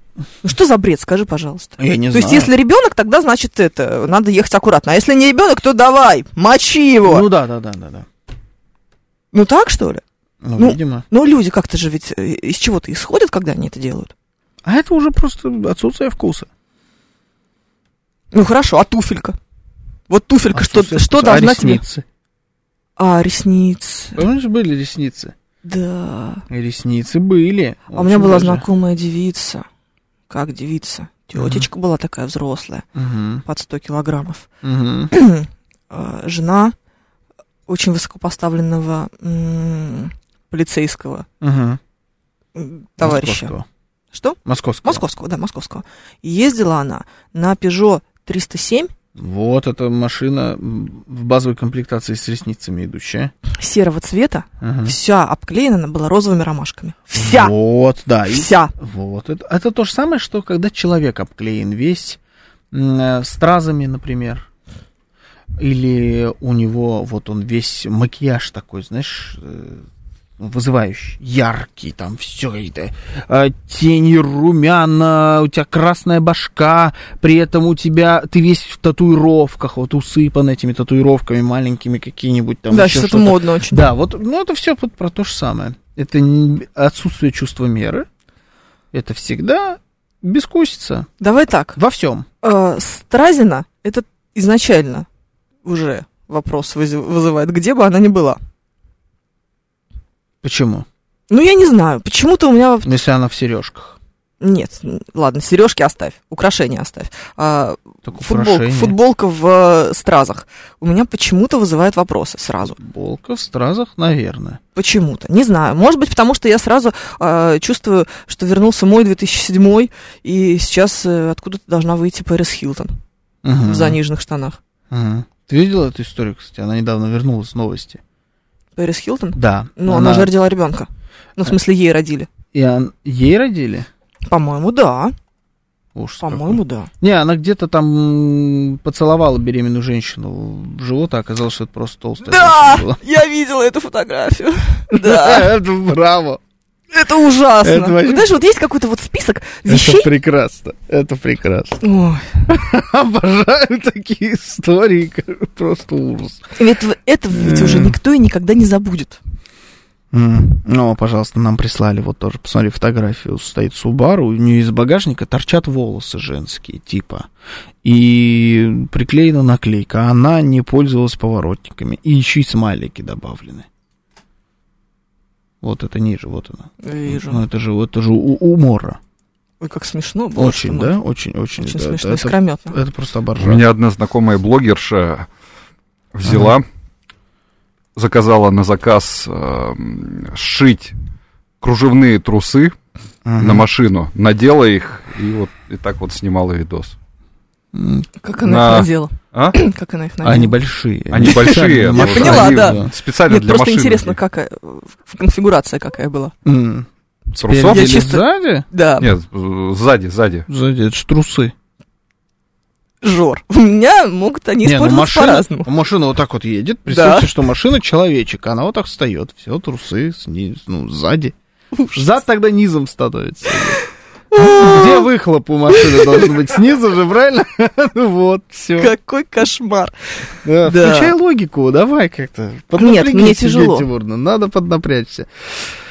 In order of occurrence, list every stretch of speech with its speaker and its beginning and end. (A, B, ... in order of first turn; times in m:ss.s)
0:00.4-0:07.3 A
0:01.8-0:02.5 B
0:07.0-0:08.0 B
0:09.3-0:10.0 A
0:10.4-0:11.0 B
0:10.6-0:14.1 A
0:14.6-0:16.5 B
0:18.3-0:19.4 A
0:20.1-0:21.8 A
0:20.5-0:22.0 B
0:23.0-0:24.2 A
0:24.1-0:25.3 B
0:25.6-0:26.4 A
0:26.5-0:28.6 B
0:27.9-0:29.6 A
0:30.3-0:32.8 A
0:31.3-0:31.7 B
0:32.9-0:33.4 B
0:33.4-0:34.5 A
0:34.6-0:35.1 B
0:35.1-0:36.7 A
0:37.7-0:41.2 A
0:41.4-0:41.8 B
0:42.6-0:43.5 A
0:43.0-0:43.6 B
0:44.1-0:48.9 A
0:44.4-0:45.0 B
0:49.2-0:53.3 B
0:53.5-0:57.5 A
0:54.6-0:54.9 B
0:57.2-1:02.2 B
0:58.3-0:58.7 A
1:02.7-1:04.4 B
1:05.6-1:09.8 B
1:10.4-1:28.1 B
1:22.7-1:23.9 A
1:28.9-1:31.1 B
1:31.2-1:31.8 A
1:31.7-1:32.2 B
1:32.4-1:35.1 A
1:35.6-1:38.4 A
1:40.4-1:40.8 B
1:41.3-1:43.0 A
1:42.8-1:44.0 B
1:44.4-1:52.8 A
1:48.0-1:49.0 B
1:52.8-1:54.6 B
1:54.8-2:03.0 A
2:03.4-2:04.0 B
2:03.6-2:04.6 A
2:04.9-2:08.0 B
2:08.8-2:12.3 A
2:09.4-2:10.3 B
2:12.5-2:13.9 B
2:14.2-2:15.1 A
2:15.9-2:23.0 B
2:16.2-2:16.9 A
2:22.2-2:25.5 A
2:24.9-2:26.4 B
2:26.9-2:30.1 A
2:27.6-2:28.3 B
2:29.7-2:31.8 B
2:31.8-2:32.4 A
2:32.5-2:36.5 B
2:36.6-2:39.2 A
2:37.3-2:38.0 B
2:40.1-2:47.3 B
2:47.8-2:53.6 B
2:55.6-2:59.0 B
2:56.8-2:57.4 A
2:59.6-3:00.9 A
3:00.3-3:03.6 B
3:01.6-3:02.8 A
3:03.4-3:05.3 C
3:06.1-3:06.6 C
3:06.2-3:06.5 B
3:07.9-3:10.9 C
3:11.6-3:12.8 C
3:13.2-3:13.7 B
3:13.4-3:17.0 C
3:17.7-3:18.1 B
3:18.2-3:20.6 A
3:18.4-3:19.6 C
3:20.2-3:22.9 B
3:21.1-3:24.2 C
3:21.5-3:26.3 A
3:26.4-3:28.6 B
3:27.4-3:28.0 C
3:27.6-3:29.1 A
3:29.0-3:30.4 C
3:30.5-3:31.5 B
3:33.0-3:35.7 A
3:34.6-3:41.3 B
3:36.9-3:37.3 A
3:41.7-3:42.0 A
3:41.9-3:43.8 B
3:44.3-3:45.0 A
3:44.4-3:48.9 B
3:45.7-3:46.3 A
3:48.8-3:49.9 A
3:50.4-3:55.7 B
3:50.6-3:51.1 A
3:52.8-3:53.9 A